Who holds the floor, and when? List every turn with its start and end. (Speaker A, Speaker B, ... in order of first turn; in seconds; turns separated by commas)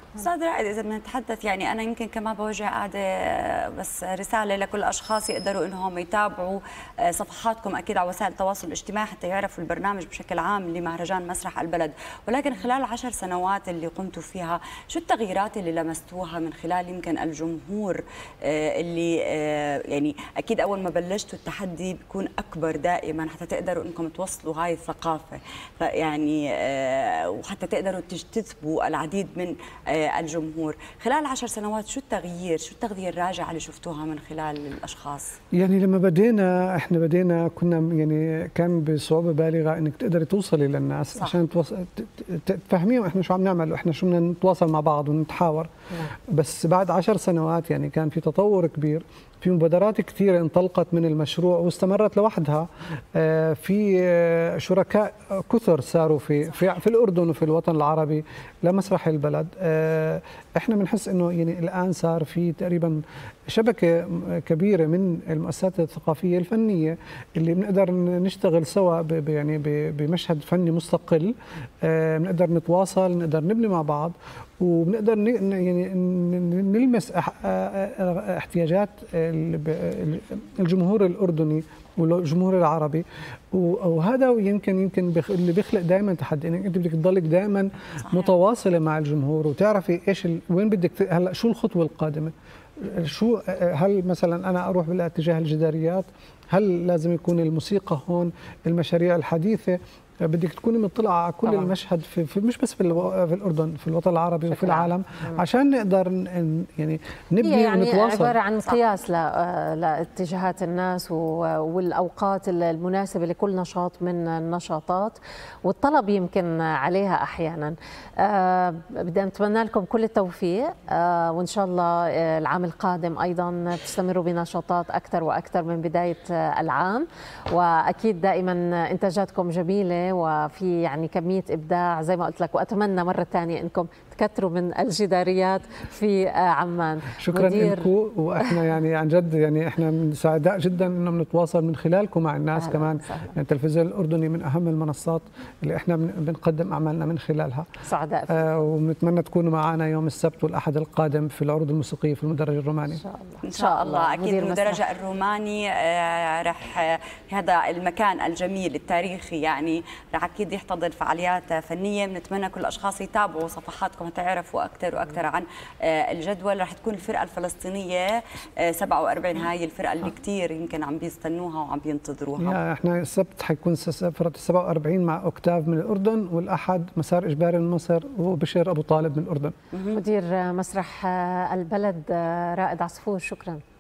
Speaker A: 0.2-35.4, Speaker B: 35.5-108.4, Speaker C: 101.4-101.7, Speaker C: 104.5-105.4, Speaker C: 107.4-137.9, Speaker B: 137.2-147.7, Speaker C: 142.6-143.3, Speaker C: 147.9-148.5, Speaker B: 148.3-153.0, Speaker C: 153.0-154.8, Speaker A: 153.4-172.6, Speaker B: 172.4-179.5, Speaker A: 179.7-180.0, Speaker C: 179.9-183.6